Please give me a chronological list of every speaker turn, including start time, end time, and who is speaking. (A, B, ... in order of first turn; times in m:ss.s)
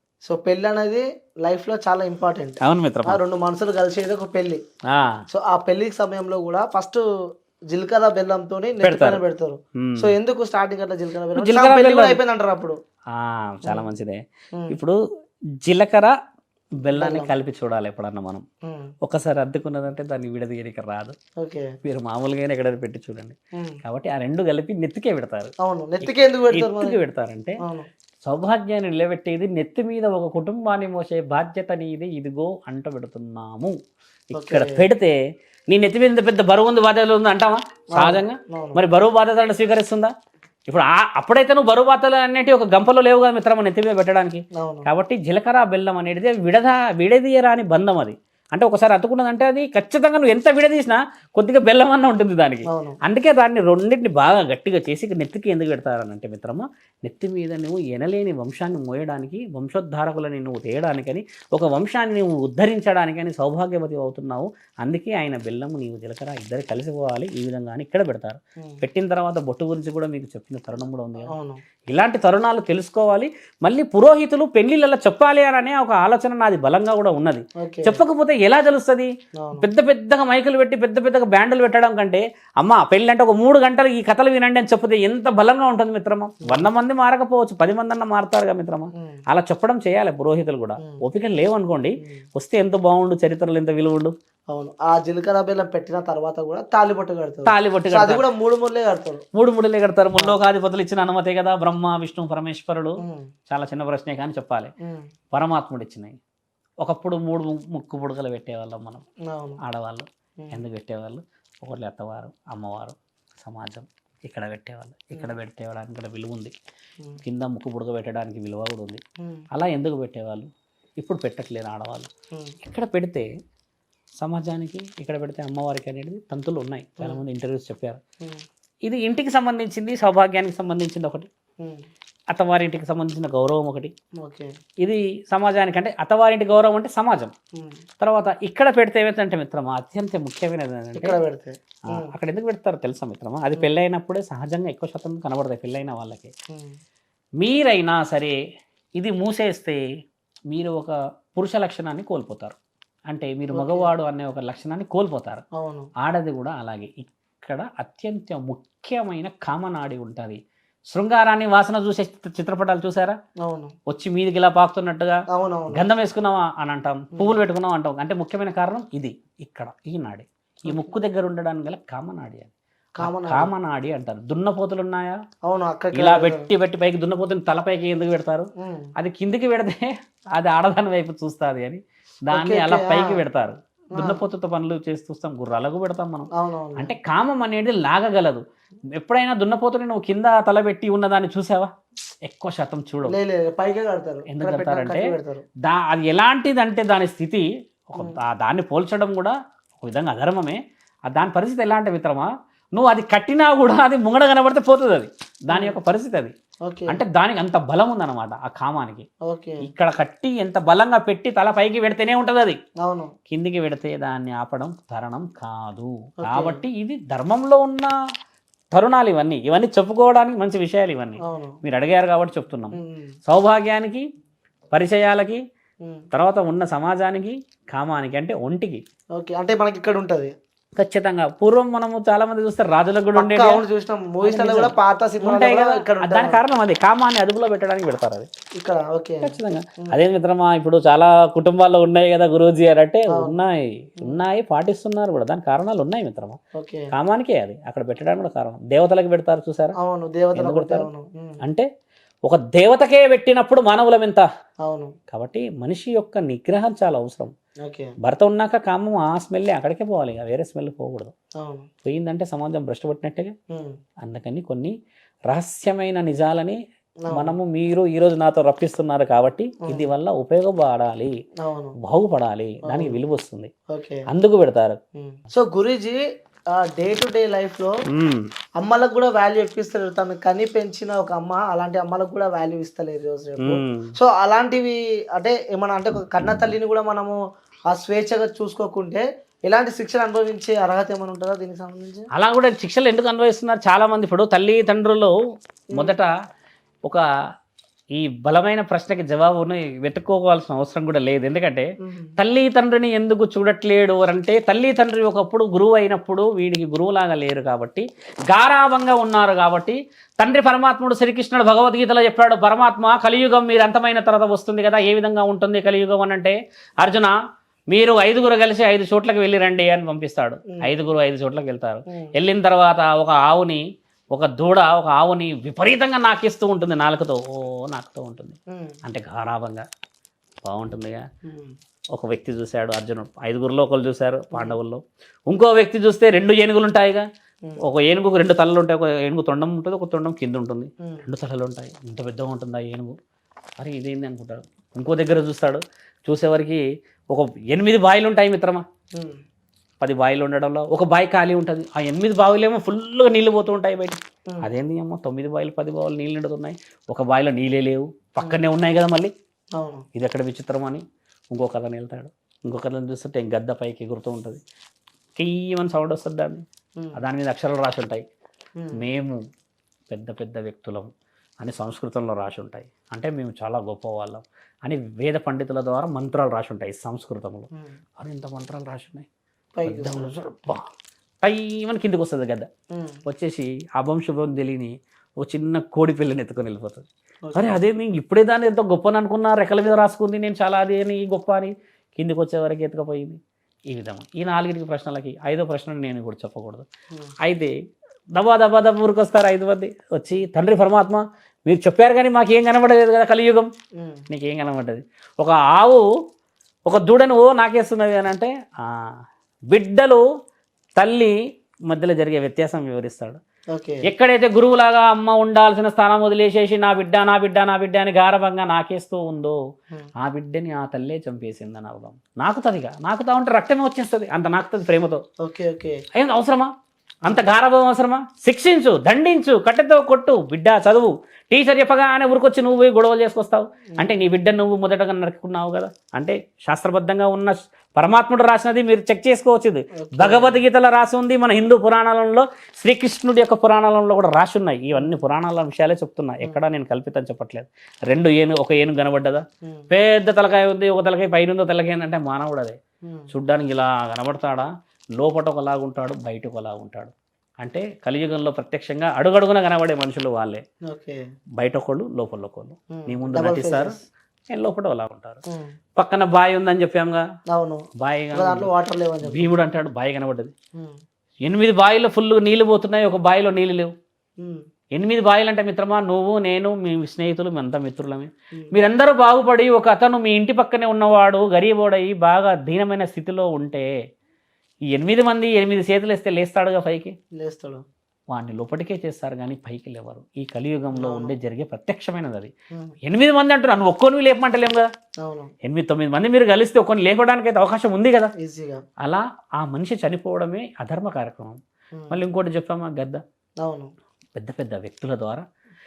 0:00.2-0:04.6 A
0:02.6-0:03.2 B
0:04.9-0:05.2 B
0:05.3-0:07.0 A
0:07.7-0:12.8 A
0:08.8-0:09.2 B
0:09.8-0:10.1 B
0:11.3-0:12.2 B
0:13.1-0:15.0 B
0:13.6-0:13.9 A
0:15.6-0:16.1 B
0:16.8-0:18.4 B
0:16.9-0:17.3 A
0:19.0-0:21.1 B
0:21.4-0:21.7 A
0:21.8-0:27.6 B
0:25.6-0:27.0 A
0:28.2-0:33.7 B
0:34.3-0:35.2 B
0:34.3-0:34.8 A
0:35.7-0:40.1 B
0:38.0-0:38.8 A
0:40.7-1:11.3 B
0:44.6-0:44.9 A
0:52.7-0:53.0 A
1:11.2-1:11.6 A
1:11.9-1:34.1 B
1:17.6-1:18.0 A
1:19.4-1:19.7 A
1:34.5-1:39.2 A
1:37.4-1:38.2 B
1:39.3-1:44.7 B
1:45.3-1:46.1 B
1:46.8-1:49.0 B
1:49.2-1:49.6 A
1:49.6-1:56.5 B
1:57.2-1:59.0 B
1:59.5-2:00.5 B
2:01.0-2:02.1 B
2:02.6-2:03.3 B
2:04.2-2:08.0 B
2:08.8-2:11.3 B
2:12.3-2:13.9 B
2:14.2-2:14.5 A
2:14.8-2:17.3 B
2:18.0-2:21.2 B
2:20.9-2:22.1 A
2:21.9-2:26.3 B
2:27.4-2:28.3 B
2:29.0-2:29.8 B
2:30.5-2:32.6 B
2:33.1-2:35.4 B
2:33.5-2:33.9 A
2:35.6-2:35.9 A
2:36.0-2:40.4 B
2:40.9-2:43.2 B
2:43.4-2:43.7 A
2:43.9-2:45.2 B
2:45.3-2:45.9 A
2:45.7-2:55.2 B
2:53.0-2:53.5 A
2:55.4-2:56.4 A
2:55.9-3:08.4 B
2:58.6-2:58.9 A
3:02.3-3:03.2 A
3:04.0-3:04.2 A
3:06.3-3:06.9 A
3:09.0-3:11.7 B
3:12.2-3:13.2 B
3:13.0-3:15.4 A
3:14.3-3:26.3 B
3:25.5-3:25.8 A
3:26.6-3:27.0 A
3:26.9-3:29.1 B
3:29.2-3:29.7 A
3:29.6-3:32.6 B
3:32.8-3:33.1 A
3:33.3-3:37.9 B
3:36.2-3:36.6 A
3:38.7-3:44.0 B
3:41.2-3:41.6 A
3:42.7-3:43.1 A
3:44.7-3:45.4 B
3:46.1-3:48.8 B
3:49.2-3:50.3 A
3:50.8-3:53.6 B
3:53.1-3:56.4 A
3:54.2-3:58.3 B
3:58.6-3:59.4 A
3:59.2-4:06.4 B
4:03.1-4:03.4 A
4:06.6-4:06.9 A
4:06.9-4:09.8 B
4:09.8-4:11.4 A
4:10.3-4:10.9 B
4:12.2-4:14.2 B
4:14.6-4:14.9 A
4:15.1-4:17.3 B
4:17.6-4:17.9 A
4:18.0-4:21.1 B
4:21.4-4:21.6 A
4:21.8-4:23.3 B
4:24.0-4:24.7 B
4:25.3-4:26.6 B
4:27.1-4:27.3 A
4:27.1-4:31.1 B
4:31.4-4:31.8 A
4:31.8-4:33.5 B
4:32.7-4:33.0 A
4:33.7-4:34.0 A
4:34.1-4:34.8 B
4:35.0-4:36.0 A
4:36.6-4:37.7 A
4:37.9-4:38.3 B
4:38.6-4:47.2 A
4:43.4-4:43.9 B
4:47.7-4:52.1 A
4:52.1-4:55.1 B
4:55.7-4:56.1 B
4:58.0-5:17.1 B
5:01.8-5:02.1 A
5:17.7-5:23.6 B
5:24.1-5:29.6 B
5:30.4-5:31.0 B
5:31.2-5:31.5 A
5:31.9-5:37.0 B
5:37.6-5:42.9 B
5:43.6-5:48.6 B
5:49.8-5:59.1 B
5:59.6-5:59.8 A
5:59.9-6:04.4 B
6:05.2-6:06.4 B
6:06.9-6:08.0 B
6:08.7-6:09.2 B
6:09.9-6:10.9 B
6:11.4-6:17.5 B
6:18.0-6:19.1 B
6:19.6-6:20.1 A
6:19.6-6:20.6 B
6:21.2-6:22.5 B
6:23.0-6:33.2 B
6:27.3-6:27.6 A
6:33.7-6:36.6 B
6:37.2-6:37.5 B
6:38.1-6:43.5 B
6:43.8-6:44.0 A
6:44.1-6:45.8 B
6:46.6-6:48.9 B
6:49.5-6:50.0 B
6:50.7-6:51.1 B
6:51.7-6:53.2 B
6:53.5-6:53.8 A
6:53.8-6:59.4 B
7:00.0-7:05.0 B
7:05.2-7:05.8 A
7:05.9-7:06.5 B
7:07.0-7:32.6 B
7:19.8-7:20.4 A
7:33.1-7:40.4 B
7:40.7-7:41.0 A
7:41.4-7:43.7 B
7:42.8-7:43.8 A
7:44.3-7:45.2 B
7:45.3-7:45.5 A
7:45.8-7:47.0 B
7:47.3-7:47.6 A
7:47.8-7:48.5 B
7:48.1-7:49.3 A
7:49.0-7:50.3 B
7:51.2-7:53.7 B
7:54.7-8:03.7 B
8:04.7-8:06.9 B
8:07.2-8:07.6 A
8:08.1-8:12.3 B
8:10.7-8:11.1 A
8:12.8-8:14.7 B
8:15.0-8:15.3 A
8:15.4-8:18.1 B
8:18.2-8:18.6 A
8:18.8-8:21.4 B
8:21.9-8:23.0 B
8:23.4-8:23.7 A
8:24.2-8:25.2 B